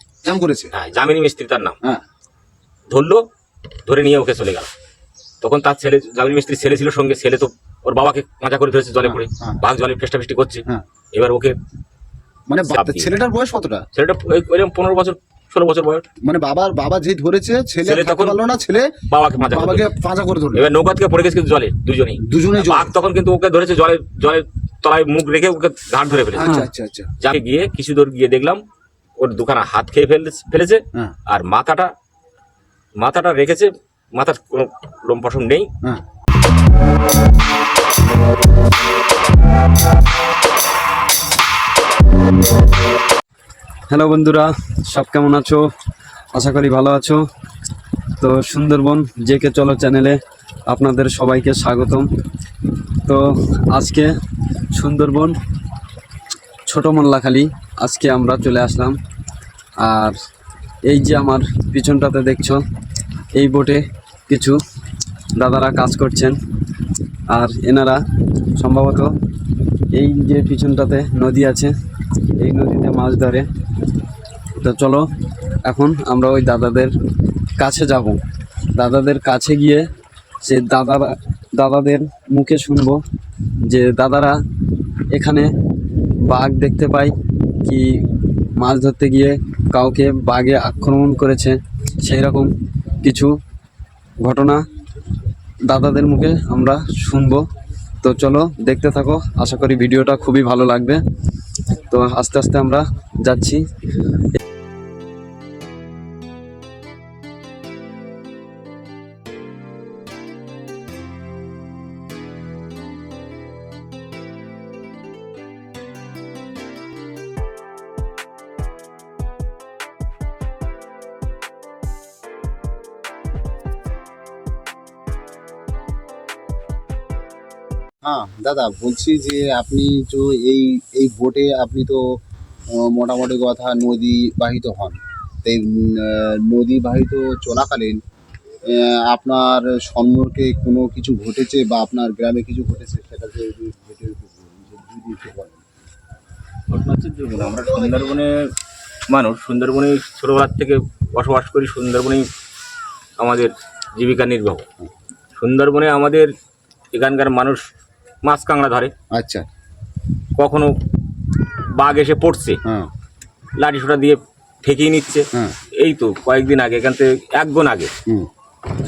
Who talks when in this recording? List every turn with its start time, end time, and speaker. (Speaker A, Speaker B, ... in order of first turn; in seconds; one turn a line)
Speaker A: 0.2-0.7
Speaker B: 0.7-1.8
Speaker B: 2.9-3.2
Speaker B: 3.9-4.7
Speaker B: 5.4-11.6
Speaker A: 9.0-9.6
Speaker A: 12.5-13.8
Speaker B: 12.6-13.1
Speaker B: 13.9-16.0
Speaker A: 16.2-20.7
Speaker B: 17.8-18.4
Speaker B: 19.1-19.9
Speaker B: 20.5-26.6
Speaker A: 22.2-22.9
Speaker A: 26.3-27.1
Speaker C: 26.4-26.7
Speaker B: 27.2-28.6
Speaker B: 29.2-31.9
Speaker B: 33.0-35.7
Speaker C: 43.9-45.6
Speaker C: 46.3-47.2
Speaker C: 48.2-52.1
Speaker C: 53.0-54.1
Speaker C: 54.7-55.4
Speaker C: 56.7-59.0
Speaker C: 59.8-60.1
Speaker C: 60.9-62.6
Speaker C: 63.3-64.6
Speaker C: 65.3-66.4
Speaker C: 67.3-68.0
Speaker C: 68.5-69.1
Speaker C: 69.9-71.7
Speaker C: 72.4-73.5
Speaker C: 74.6-75.0
Speaker C: 75.7-76.9
Speaker C: 77.6-78.2
Speaker C: 78.8-79.8
Speaker C: 80.4-83.0
Speaker C: 83.7-84.4
Speaker C: 85.1-85.5
Speaker C: 86.3-88.0
Speaker C: 88.6-92.5
Speaker C: 93.0-93.3
Speaker C: 94.2-94.6
Speaker C: 95.7-97.4
Speaker C: 98.0-101.0
Speaker C: 101.9-103.6
Speaker A: 128.0-132.2
Speaker A: 132.7-138.0
Speaker A: 138.7-145.7
Speaker B: 146.7-148.5
Speaker B: 149.1-152.3
Speaker B: 153.2-154.7
Speaker B: 155.3-156.3
Speaker B: 156.9-157.7
Speaker B: 158.2-158.9
Speaker A: 159.1-159.4
Speaker B: 160.3-160.8
Speaker B: 161.7-162.6
Speaker B: 163.6-167.9